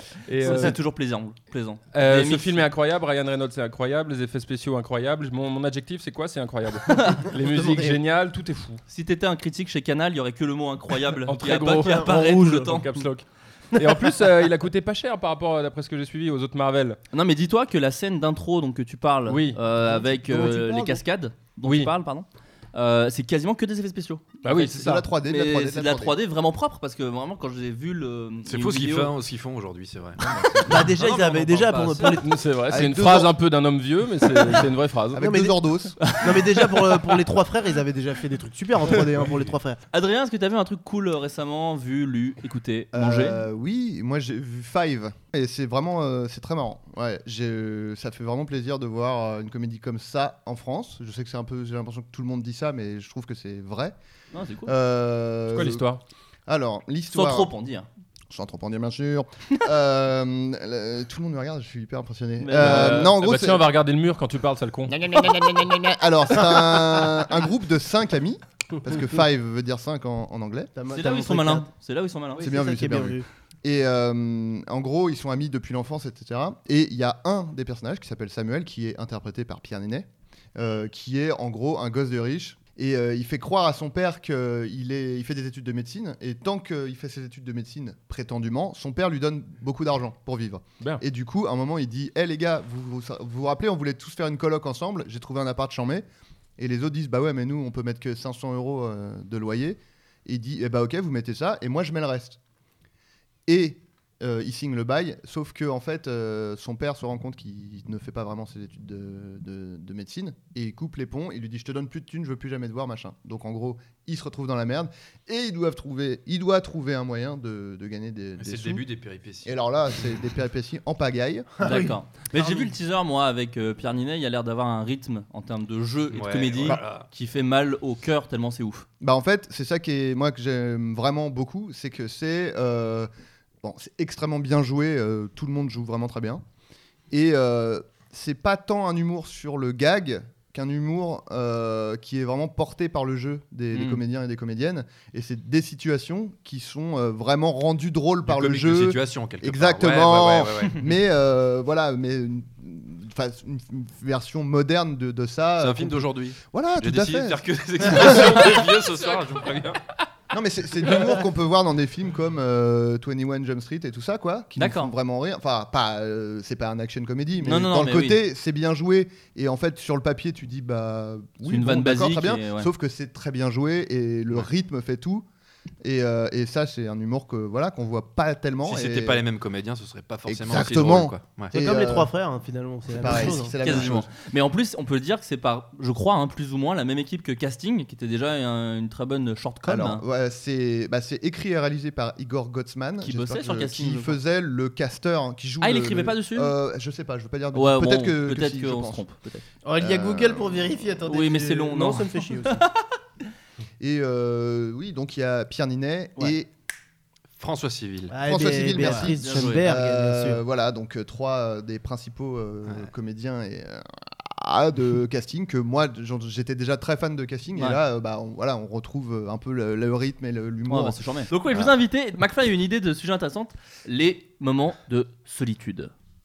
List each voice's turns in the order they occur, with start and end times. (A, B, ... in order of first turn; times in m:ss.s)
0:00.2-0:00.8 A
0:00.4-0:02.6 B
0:01.9-0:08.8 A
0:06.9-0:07.3 B
0:07.5-0:07.9 C
0:08.9-0:13.0 B
0:11.2-0:17.0 A
0:11.8-0:12.8 C
0:17.1-0:24.4 B
0:19.3-0:19.6 A
0:20.1-0:21.0 C
0:21.6-0:21.9 A
0:24.4-0:25.1 A
0:24.5-0:26.2 D
0:25.2-0:29.1 B
0:28.4-0:30.2 E
0:30.2-0:30.9 D
0:30.7-0:32.3 C
0:30.9-0:31.4 E
0:31.0-0:32.2 B
0:32.0-0:35.3 A
0:32.7-0:33.3 D
0:35.1-0:36.0 D
0:35.2-0:35.5 C
0:36.0-0:36.8 B
0:36.1-0:39.8 C
0:39.0-0:39.5 E
0:39.9-0:43.4 B
0:42.9-0:53.9 D
0:54.3-0:54.7 B
0:54.6-0:55.8 D
0:55.5-0:56.0 A
0:56.5-0:57.5 D
0:57.1-0:57.9 B
0:58.3-1:03.6 D
1:02.4-1:03.1 B
1:02.6-1:04.9 A
1:04.9-1:10.7 D
1:10.7-1:11.7 C
1:10.9-1:12.4 B
1:12.4-1:13.2 C
1:12.4-1:36.0 D
1:36.6-1:42.4 D
1:43.5-1:58.8 D
1:58.4-1:59.5 E
1:59.4-2:01.6 D
2:01.6-2:02.7 C
2:01.6-2:08.8 B
2:06.1-2:07.1 E
2:09.0-2:13.1 D
2:13.6-2:16.4 D
2:17.1-2:38.6 D
2:23.7-2:24.0 B
2:28.2-2:30.8 E
2:35.6-2:39.8 E
2:38.0-2:39.2 A
2:40.3-2:55.2 D
2:44.6-2:44.9 B
2:47.4-2:48.2 B
2:51.4-2:52.7 B
2:55.8-2:59.2 D
2:58.6-3:01.5 E
3:00.2-3:02.1 D
3:01.5-3:03.9 C
3:02.9-3:04.1 D
3:03.0-3:10.0 B
3:09.6-3:19.0 D
3:13.0-3:14.2 B
3:15.6-3:16.5 B
3:17.5-3:19.4 B
3:19.6-3:22.6 C
3:19.8-3:21.0 D
3:21.1-3:22.9 B
3:23.8-3:26.5 D
3:27.4-3:28.1 E
3:28.1-3:30.4 C
3:28.2-3:41.7 D
3:28.8-3:29.7 B
3:37.5-3:37.8 B
3:40.7-3:45.9 B